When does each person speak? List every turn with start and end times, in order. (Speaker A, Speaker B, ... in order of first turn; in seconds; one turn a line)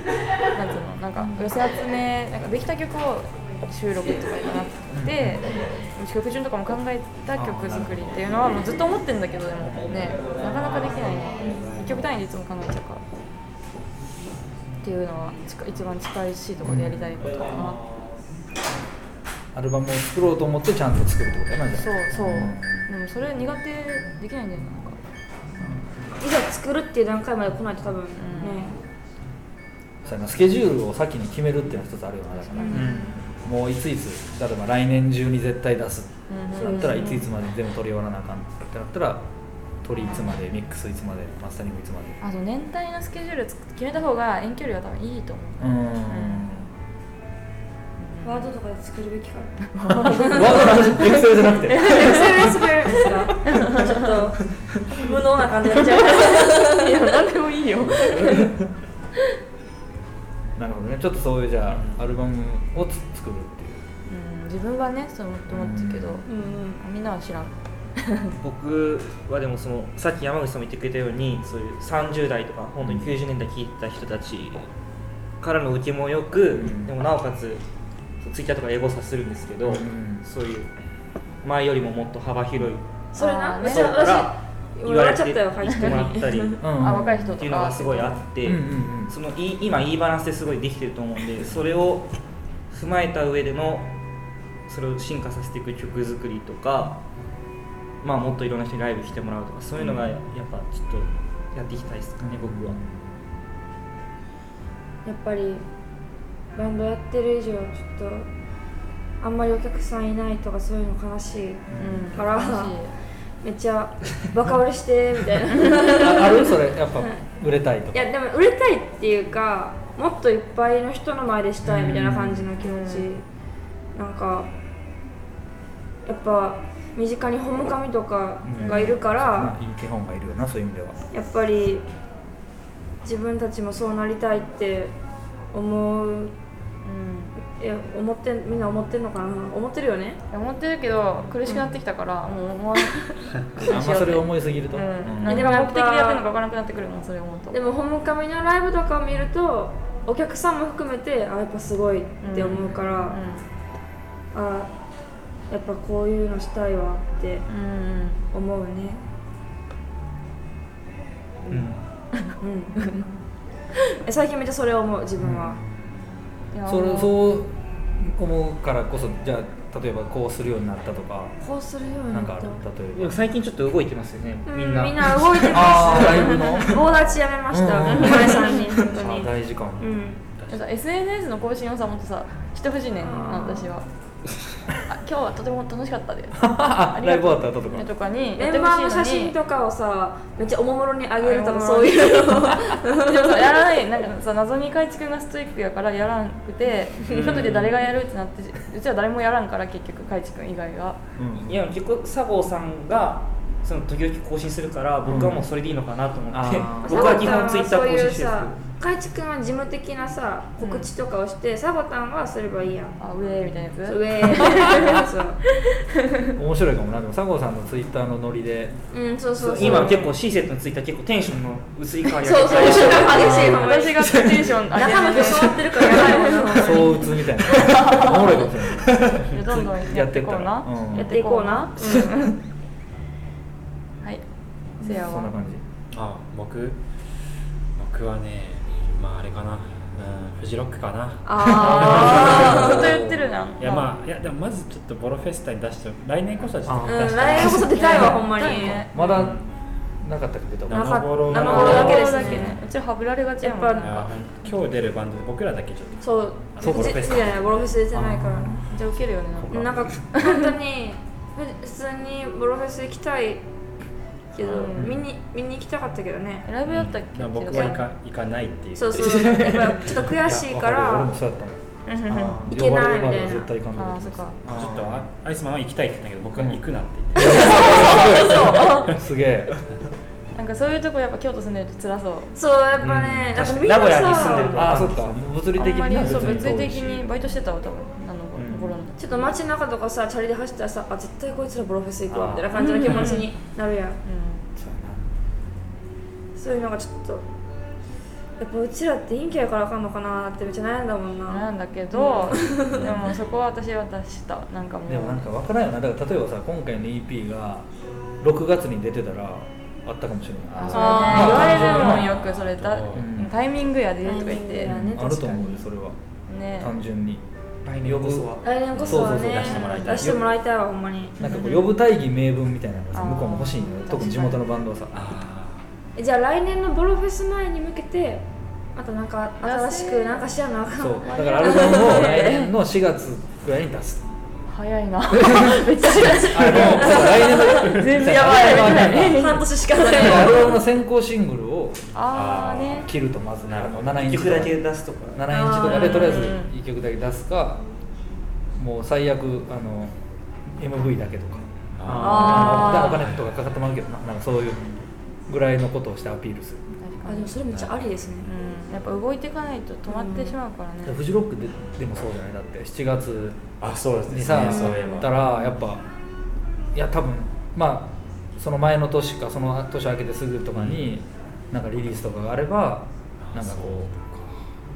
Speaker A: 0.5-13.0
Speaker B: 4.9-5.7
Speaker B: 7.3-8.2
Speaker B: 9.7-10.0
Speaker A: 14.8-17.8
Speaker B: 16.6-17.8
Speaker B: 19.5-22.9
Speaker A: 21.8-25.0
Speaker C: 26.2-28.8
Speaker A: 28.2-28.7
Speaker B: 30.0-39.2
Speaker A: 32.4-33.2
Speaker C: 32.6-32.9
Speaker D: 32.7-33.1
Speaker A: 36.3-37.2
Speaker C: 36.6-37.2
Speaker B: 39.8-42.2
Speaker A: 40.0-40.3
Speaker A: 42.2-46.5
Speaker B: 45.6-46.7
Speaker A: 48.0-48.5
Speaker C: 48.2-50.9
Speaker A: 49.7-52.3
Speaker B: 50.0-52.7
Speaker C: 51.7-56.9
Speaker A: 53.4-54.1
Speaker A: 56.0-58.5
Speaker B: 58.0-58.4
Speaker B: 60.6-63.8
Speaker D: 61.7-62.0
Speaker A: 64.1-68.3
Speaker B: 65.5-66.2
Speaker C: 66.3-66.8
Speaker D: 68.4-74.7
Speaker B: 72.8-73.2
Speaker D: 75.4-77.6
Speaker B: 76.5-76.9
Speaker D: 78.2-80.7
Speaker B: 79.7-80.2
Speaker D: 81.4-82.8
Speaker C: 83.1-86.6
Speaker A: 83.2-84.0
Speaker D: 83.7-86.7
Speaker B: 86.6-87.4
Speaker A: 86.7-88.2
Speaker D: 87.4-92.1
Speaker B: 88.4-89.2
Speaker D: 92.7-93.9
Speaker D: 94.7-97.0
Speaker D: 98.0-102.8
Speaker B: 99.8-100.1
Speaker B: 102.2-103.1
Speaker C: 105.0-105.7
Speaker C: 106.5-108.3
Speaker C: 109.2-112.8
Speaker B: 111.7-112.1
Speaker A: 111.8-112.9
Speaker C: 113.4-117.2
Speaker B: 115.7-118.1
Speaker C: 117.9-123.2
Speaker B: 121.6-122.5
Speaker A: 122.6-123.1
Speaker C: 124.0-124.5
Speaker C: 126.1-129.5
Speaker B: 128.4-131.0
Speaker A: 128.6-128.9
Speaker C: 131.1-131.8
Speaker C: 133.0-134.9
Speaker C: 135.5-136.3
Speaker A: 136.8-137.3
Speaker C: 137.5-140.2
Speaker A: 140.3-147.6
Speaker B: 143.6-145.6
Speaker C: 145.2-146.3
Speaker C: 147.5-153.2
Speaker A: 152.2-153.4
Speaker B: 152.4-152.8
Speaker C: 154.3-154.7
Speaker C: 155.5-157.5
Speaker A: 157.5-158.2
Speaker C: 158.3-159.0
Speaker B: 161.5-161.8
Speaker A: 162.2-163.1
Speaker C: 162.4-162.9
Speaker C: 164.0-165.6
Speaker B: 165.2-165.9
Speaker A: 166.5-167.2
Speaker B: 166.7-171.3
Speaker C: 171.4-172.6
Speaker B: 172.1-173.2
Speaker D: 172.9-176.6
Speaker C: 174.5-180.2
Speaker B: 175.5-176.9
Speaker B: 177.5-179.9
Speaker A: 177.9-178.4
Speaker A: 180.5-183.9
Speaker C: 183.0-183.7
Speaker A: 184.8-189.4
Speaker B: 186.3-187.9
Speaker C: 188.4-193.5
Speaker A: 191.2-201.0
Speaker D: 197.1-197.8
Speaker B: 201.2-201.7
Speaker D: 201.4-208.6
Speaker B: 205.1-205.5
Speaker B: 206.3-207.3
Speaker C: 206.8-213.0
Speaker A: 210.6-210.9
Speaker A: 213.0-215.0
Speaker C: 213.9-215.4
Speaker B: 216.3-218.8
Speaker C: 218.9-220.1
Speaker D: 219.4-224.6
Speaker B: 219.6-220.0
Speaker C: 222.2-228.3
Speaker B: 223.0-223.7
Speaker A: 223.2-226.9
Speaker B: 226.5-231.2
Speaker A: 227.5-228.4
Speaker A: 229.2-232.3
Speaker C: 230.9-232.3
Speaker A: 234.8-235.3
Speaker B: 234.9-235.6
Speaker E: 235.9-236.8
Speaker E: 237.8-243.1
Speaker C: 241.2-242.9
Speaker A: 241.6-243.9
Speaker B: 241.8-243.1
Speaker E: 243.6-248.1
Speaker B: 246.7-247.6
Speaker C: 246.9-248.9
Speaker A: 247.7-249.3
Speaker B: 248.9-249.4
Speaker E: 249.2-249.4
Speaker B: 250.0-252.5
Speaker E: 250.7-252.4
Speaker C: 250.7-252.6
Speaker A: 251.3-254.1
Speaker C: 253.4-254.1
Speaker E: 253.8-257.7
Speaker C: 256.0-258.5
Speaker B: 256.6-257.2
Speaker B: 257.9-258.5
Speaker A: 258.5-260.6
Speaker E: 259.4-259.9
Speaker C: 259.5-263.4
Speaker C: 264.3-266.5
Speaker A: 264.5-264.9
Speaker B: 264.8-265.1
Speaker A: 266.4-267.8
Speaker E: 266.6-270.0
Speaker C: 268.8-271.1
Speaker B: 270.2-275.1
Speaker A: 271.9-272.5
Speaker C: 272.5-273.5
Speaker A: 273.8-274.4
Speaker E: 274.5-278.9
Speaker A: 277.2-278.9
Speaker B: 277.2-279.6
Speaker A: 280.4-282.3
Speaker C: 282.4-284.9
Speaker B: 282.8-283.3
Speaker D: 283.3-285.2
Speaker B: 284.5-287.1
Speaker A: 285.6-289.3
Speaker B: 288.4-288.8
Speaker C: 289.0-294.0
Speaker B: 292.1-293.2
Speaker A: 292.6-293.3
Speaker A: 294.1-294.5
Speaker B: 294.6-295.0
Speaker C: 296.4-297.2
Speaker C: 298.4-302.9
Speaker A: 301.3-305.3
Speaker B: 304.9-307.7
Speaker B: 308.2-312.3
Speaker A: 310.6-315.0
Speaker C: 310.7-312.1
Speaker E: 312.4-313.1
Speaker B: 312.9-313.3
Speaker C: 314.0-315.6
Speaker B: 314.6-316.0
Speaker A: 316.3-316.8
Speaker B: 316.6-317.2
Speaker D: 317.6-318.5
Speaker B: 317.8-320.3
Speaker C: 318.4-321.2
Speaker E: 318.7-320.2
Speaker B: 321.2-325.1
Speaker A: 321.2-321.7
Speaker A: 322.9-324.4
Speaker E: 324.9-325.7
Speaker C: 326.0-332.3
Speaker A: 329.4-330.3
Speaker B: 330.8-334.0
Speaker A: 331.0-332.5
Speaker A: 334.5-340.0
Speaker B: 335.2-341.8
Speaker C: 335.6-340.6
Speaker A: 341.9-342.9
Speaker E: 342.1-342.9
Speaker B: 342.8-344.6
Speaker E: 343.5-343.9
Speaker D: 343.9-345.2
Speaker B: 345.1-347.6
Speaker C: 345.3-346.4
Speaker A: 345.6-346.5
Speaker B: 348.6-349.9
Speaker B: 350.5-354.7
Speaker E: 351.8-353.3
Speaker D: 351.9-352.3
Speaker A: 352.0-353.0
Speaker B: 355.3-356.6
Speaker A: 356.8-357.3
Speaker C: 357.1-358.3
Speaker E: 357.5-357.9
Speaker A: 358.2-361.0
Speaker C: 359.9-360.4
Speaker B: 360.8-363.4
Speaker E: 363.6-365.1
Speaker B: 364.1-365.8
Speaker B: 366.7-373.9
Speaker E: 370.6-370.9
Speaker E: 373.2-374.5